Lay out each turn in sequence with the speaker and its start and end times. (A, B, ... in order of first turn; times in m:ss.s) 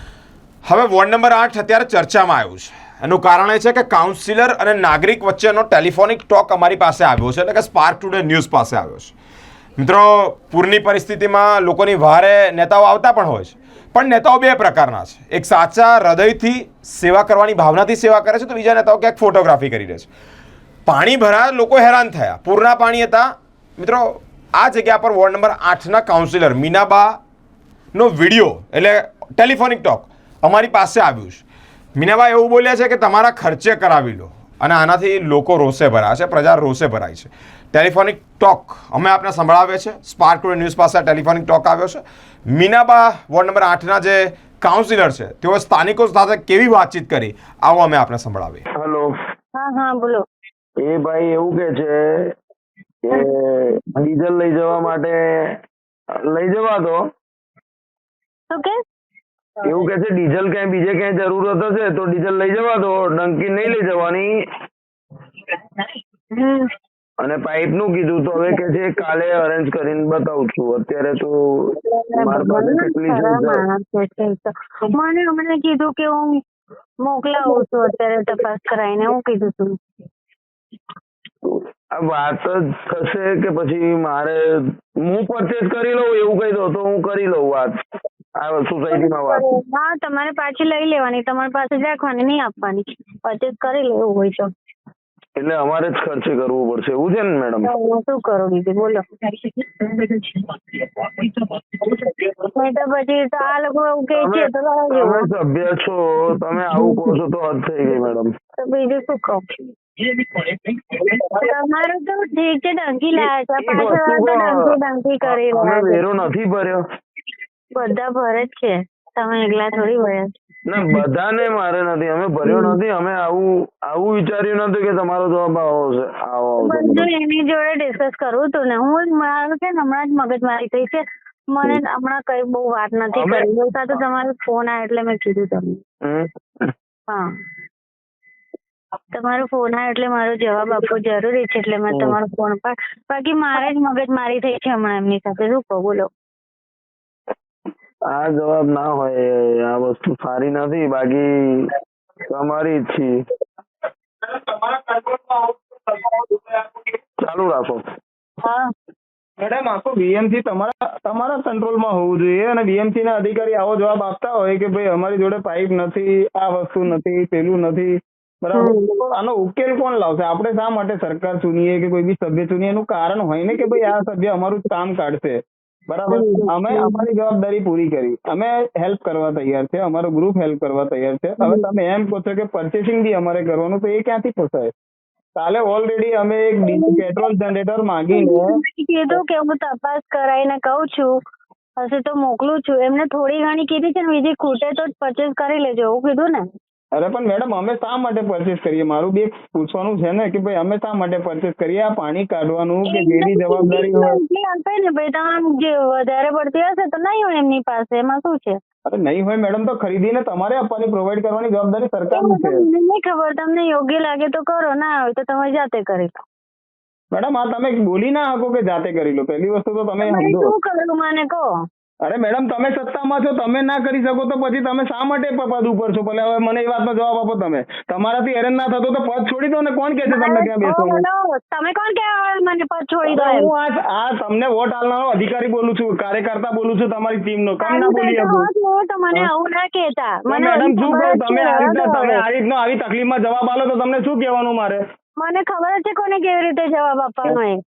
0:00.6-0:09.1 A
0:09.8-0:20.1 A
0:20.9-0:27.2 A
0:27.9-0:31.4 A
0:32.0-0:48.6 A
0:48.8-0:49.1 B
0:49.6-0:50.2 C
0:50.8-0:52.3 B
0:53.0-0:55.2 B
0:56.3-0:57.0 B
0:58.5-0:58.8 C
0:59.6-1:04.3 B
1:06.3-1:06.7 C
1:07.2-1:13.6 B
1:11.8-1:16.3 C
1:17.0-1:19.8 C
1:21.4-1:24.4 B
1:25.0-1:27.7 B
1:28.4-1:29.4 B
1:28.9-1:34.5 C
1:35.4-1:37.7 B
1:37.6-1:39.0 C
1:39.9-1:40.2 C
1:42.5-1:45.3 C
1:44.2-1:48.3 B
1:46.6-1:47.2 C
1:48.6-1:49.6 C
1:51.2-1:56.0 C
1:53.6-1:54.7 B
1:55.2-1:56.8 B
1:57.8-2:00.3 C
2:00.7-2:07.1 B
2:02.4-2:02.8 C
2:06.6-2:15.8 C
2:13.1-2:13.5 B
2:16.0-2:16.7 B
2:19.1-2:26.1 C
2:21.9-2:22.2 B
2:28.1-2:31.3 B
2:32.3-2:33.1 B
2:34.2-2:36.9 D
2:37.2-2:37.8 B
2:39.4-3:04.7 D
2:48.5-2:48.9 C
2:53.6-2:53.9 C
2:56.1-2:57.0 C
3:05.4-3:08.5 D
3:06.7-3:07.2 C
3:08.1-3:11.1 C
3:11.8-3:16.4 C
3:16.9-3:24.2 D
3:22.9-3:28.6 C
3:28.9-3:32.6 D
3:32.1-3:36.2 C
3:37.1-3:40.5 D
3:40.0-3:41.5 C
3:42.0-3:51.0 D
3:50.1-3:53.5 C
3:53.0-3:58.5 D
3:57.6-4:02.2 C
4:00.3-4:04.8 D
4:05.2-4:07.6 C